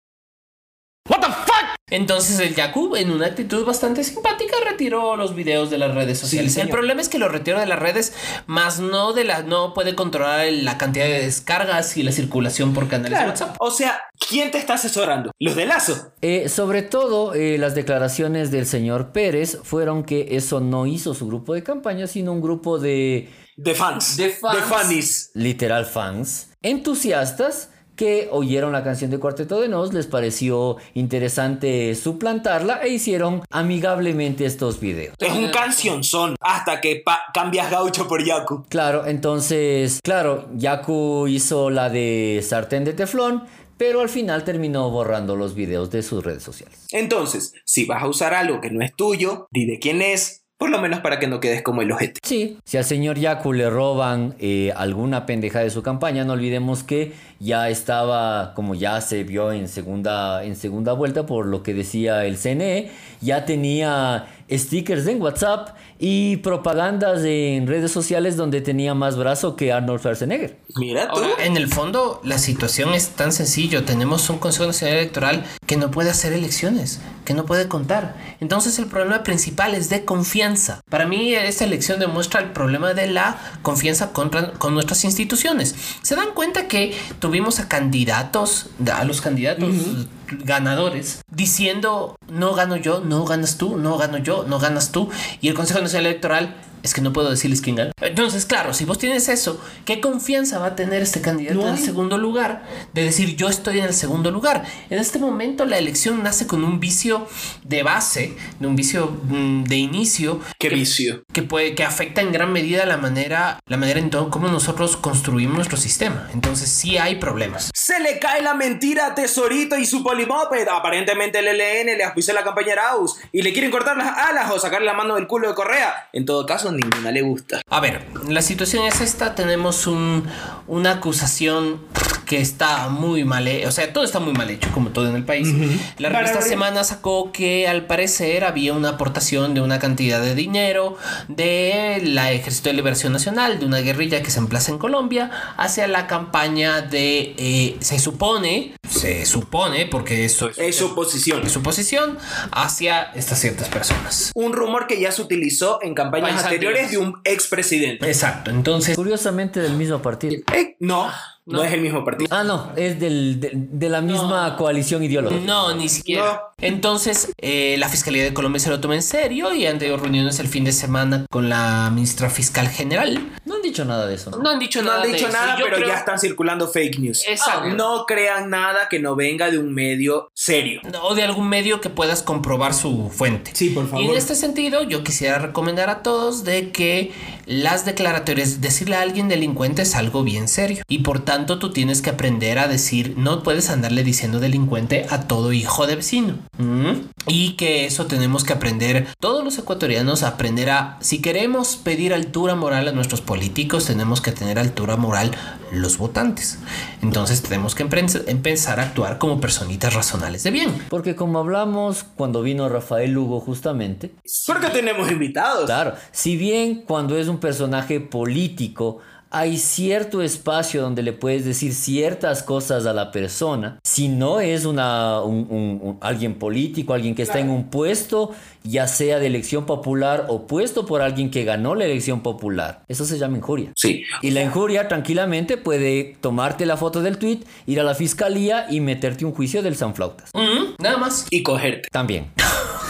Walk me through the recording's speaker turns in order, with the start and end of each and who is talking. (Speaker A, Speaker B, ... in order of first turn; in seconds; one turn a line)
Speaker A: 1.2-1.5
Speaker B: 1.9-13.5
Speaker A: 6.2-6.8
Speaker A: 13.1-16.1
Speaker C: 16.2-23.3
Speaker A: 23.6-25.3
Speaker C: 24.1-35.3
Speaker A: 35.2-38.6
Speaker B: 35.2-35.9
Speaker C: 38.7-46.8
Speaker A: 46.9-52.2
Speaker C: 52.2-70.6
Speaker A: 70.7-71.4
Speaker B: 71.1-117.7
Speaker A: 89.6-90.0
Speaker A: 101.5-101.9
Speaker A: 110.6-111.2
Speaker A: 117.7-127.6
Speaker B: 127.7-154.3
Speaker A: 135.4-136.6
Speaker A: 150.6-151.5
Speaker A: 154.3-158.0
Speaker B: 156.2-157.0
Speaker B: 158.0-158.9
Speaker C: 158.9-160.4
Speaker A: 160.5-162.3
Speaker C: 162.3-165.9
Speaker B: 164.1-164.5
Speaker B: 165.2-173.3
Speaker A: 166.0-166.4
Speaker C: 173.4-174.5
Speaker B: 174.3-176.0
Speaker A: 174.8-180.8
Speaker B: 177.2-177.8
Speaker C: 177.4-177.7
Speaker B: 180.8-210.8
Speaker A: 183.5-184.3
Speaker C: 210.9-214.2
Speaker A: 214.4-215.8
Speaker C: 215.7-240.3
Speaker A: 233.8-234.2
Speaker B: 240.3-241.3
Speaker A: 241.3-241.9
Speaker C: 241.9-242.3